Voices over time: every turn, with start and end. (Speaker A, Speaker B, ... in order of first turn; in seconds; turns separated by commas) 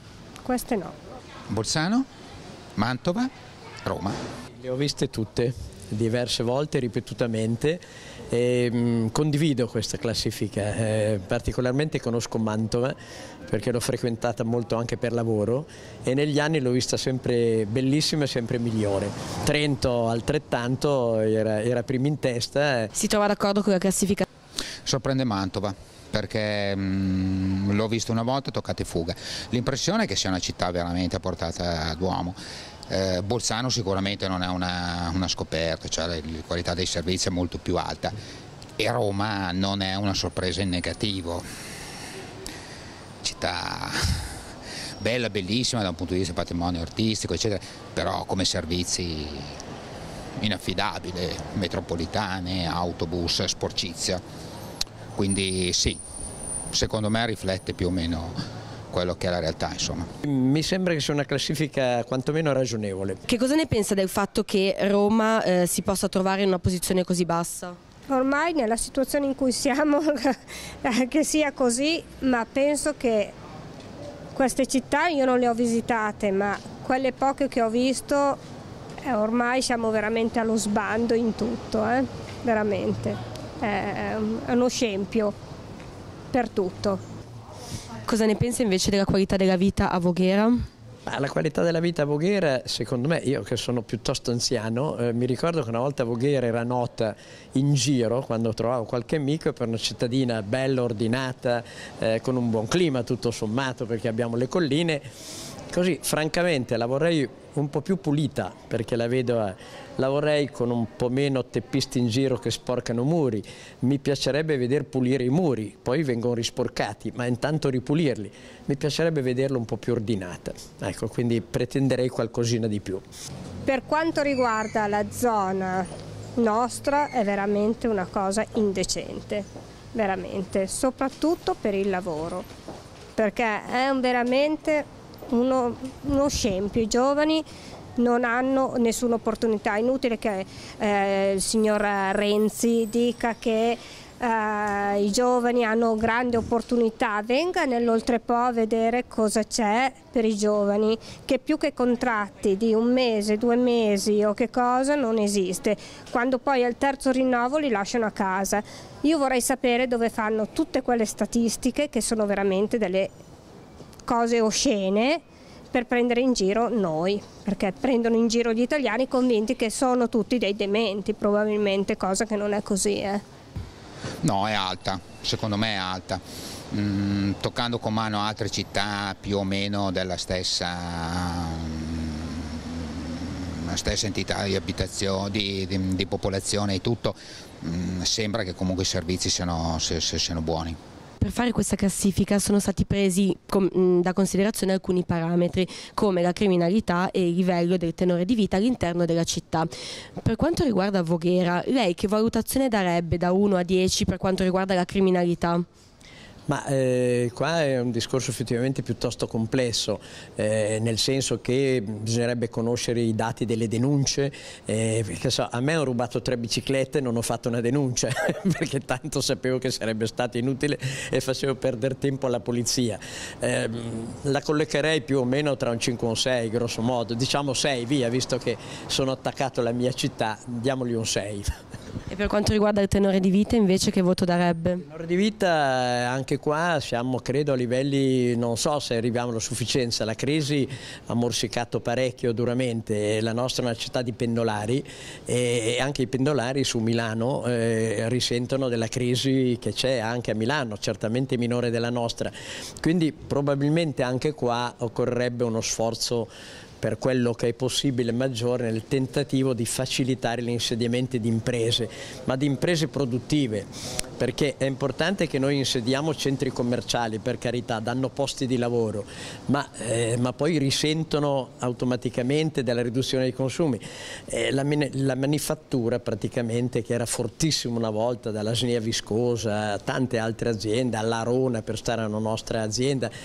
Speaker A: 0.4-0.9, Speaker B: 1.5-2.1, Speaker B: 2.8-3.3, Speaker B: 3.9-4.2, Speaker C: 4.6-13.0, Speaker C: 13.5-22.9, Speaker D: 22.9-24.3, Speaker B: 24.9-32.4, Speaker B: 32.9-38.1, Speaker B: 38.8-41.5, Speaker B: 43.2-44.3, Speaker B: 45.0-49.5, Speaker B: 50.4-54.2, Speaker B: 55.1-56.0, Speaker B: 56.7-58.4, Speaker B: 58.9-60.1, Speaker C: 60.2-63.2, Speaker D: 63.3-67.8, Speaker A: 68.1-73.3, Speaker A: 74.3-78.4, Speaker A: 79.1-85.3, Speaker A: 86.3-87.0, Speaker D: 88.1-90.7, Speaker C: 91.1-105.0, Speaker C: 105.7-123.0, Speaker A: 123.7-132.5, Speaker A: 133.2-137.5, Speaker A: 138.0-163.1, Speaker A: 164.1-173.2, Speaker B: 174.2-190.8, Speaker D: 191.2-199.7, Speaker D: 200.2-205.7, Speaker C: 206.5-231.5, Speaker D: 232.1-234.8, Speaker C: 234.8-256.3, Speaker C: 256.8-283.1